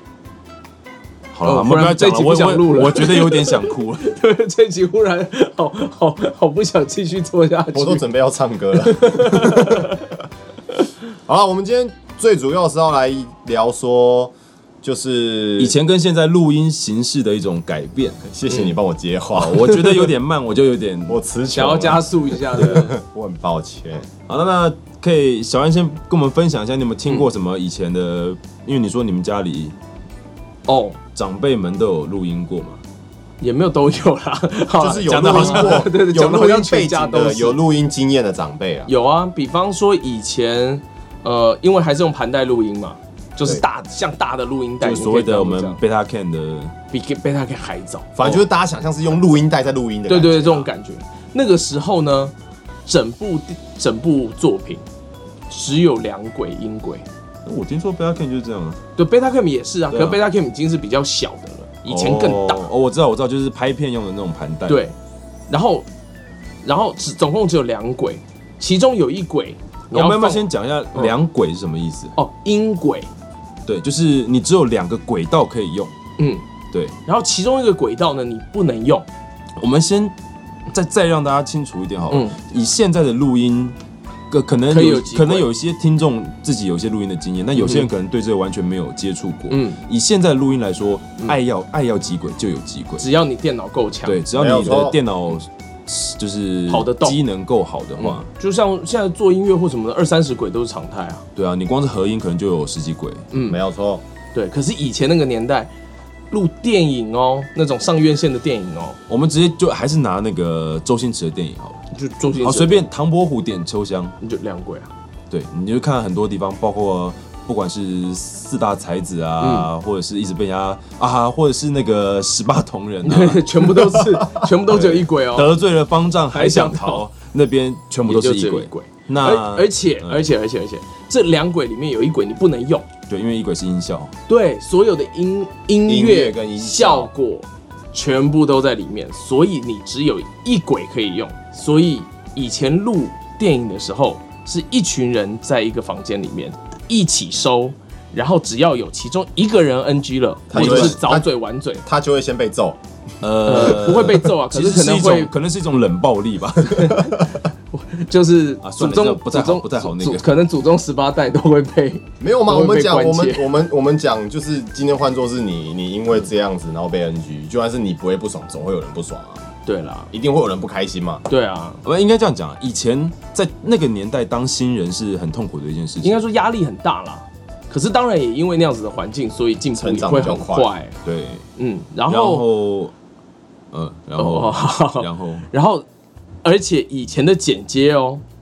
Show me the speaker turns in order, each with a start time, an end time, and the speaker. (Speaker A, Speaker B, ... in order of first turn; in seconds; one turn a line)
Speaker A: 1.3-4.1
Speaker B: 1.4-8.1
Speaker C: 7.7-10.0
Speaker B: 8.8-10.2
Speaker C: 11.3-15.7
Speaker A: 15.6-18.2
Speaker C: 18.2-20.1
Speaker A: 19.4-21.2
Speaker C: 21.1-24.1
Speaker B: 21.5-22.9
Speaker A: 24.3-29.8
Speaker B: 30.7-31.0
Speaker A: 31.1-32.8
Speaker B: 33.4-37.6
Speaker C: 34.8-38.9
Speaker A: 35.1-35.9
Speaker B: 38.9-45.8
Speaker A: 44.8-46.7
Speaker B: 46.9-48.1
Speaker C: 48.2-50.7
Speaker B: 50.1-52.3
Speaker B: 52.9-54.8
Speaker B: 55.5-57.1
Speaker A: 57.5-58.8
Speaker B: 59.0-62.7
Speaker A: 59.9-60.2
Speaker A: 61.9-64.8
Speaker B: 64.7-65.0
Speaker B: 65.5-65.9
Speaker B: 66.6-71.1
Speaker A: 69.9-72.2
Speaker B: 72.2-73.1
Speaker A: 73.7-75.9
Speaker B: 76.2-76.5
Speaker B: 77.1-79.1
Speaker A: 79.6-80.2
Speaker A: 80.7-83.8
Speaker B: 82.1-82.4
Speaker A: 84.3-93.1
Speaker B: 84.7-85.5
Speaker B: 87.5-87.9
Speaker B: 89.5-89.8
Speaker B: 93.0-94.2
Speaker A: 94.1-98.3
Speaker C: 94.3-95.0
Speaker B: 96.7-97.2
Speaker B: 98.0-101.2
Speaker A: 101.4-103.3
Speaker B: 103.3-103.6
Speaker C: 103.4-104.0
Speaker B: 104.3-105.7
Speaker B: 106.3-109.0
Speaker A: 109.1-111.8
Speaker B: 111.9-112.9
Speaker A: 112.4-114.2
Speaker B: 114.2-114.9
Speaker A: 115.3-123.5
Speaker B: 119.4-119.7
Speaker B: 123.0-125.5
Speaker A: 124.7-130.3
Speaker B: 126.3-127.0
Speaker B: 128.1-132.9
Speaker A: 133.1-134.1
Speaker B: 134.3-151.8
Speaker C: 135.8-137.1
Speaker C: 150.5-151.3
Speaker A: 150.5-150.9
Speaker C: 151.8-152.8
Speaker A: 153.2-157.1
Speaker B: 153.5-155.3
Speaker B: 156.7-157.2
Speaker B: 157.7-163.5
Speaker A: 158.6-160.3
Speaker C: 162.2-169.4
Speaker B: 169.7-170.1
Speaker C: 170.1-171.2
Speaker B: 171.3-171.8
Speaker A: 171.8-176.2
Speaker B: 176.0-181.0
Speaker C: 179.8-180.7
Speaker A: 181.0-181.5
Speaker B: 181.6-182.4
Speaker A: 182.1-182.9
Speaker A: 183.7-185.5
Speaker B: 184.2-185.9
Speaker B: 186.4-188.2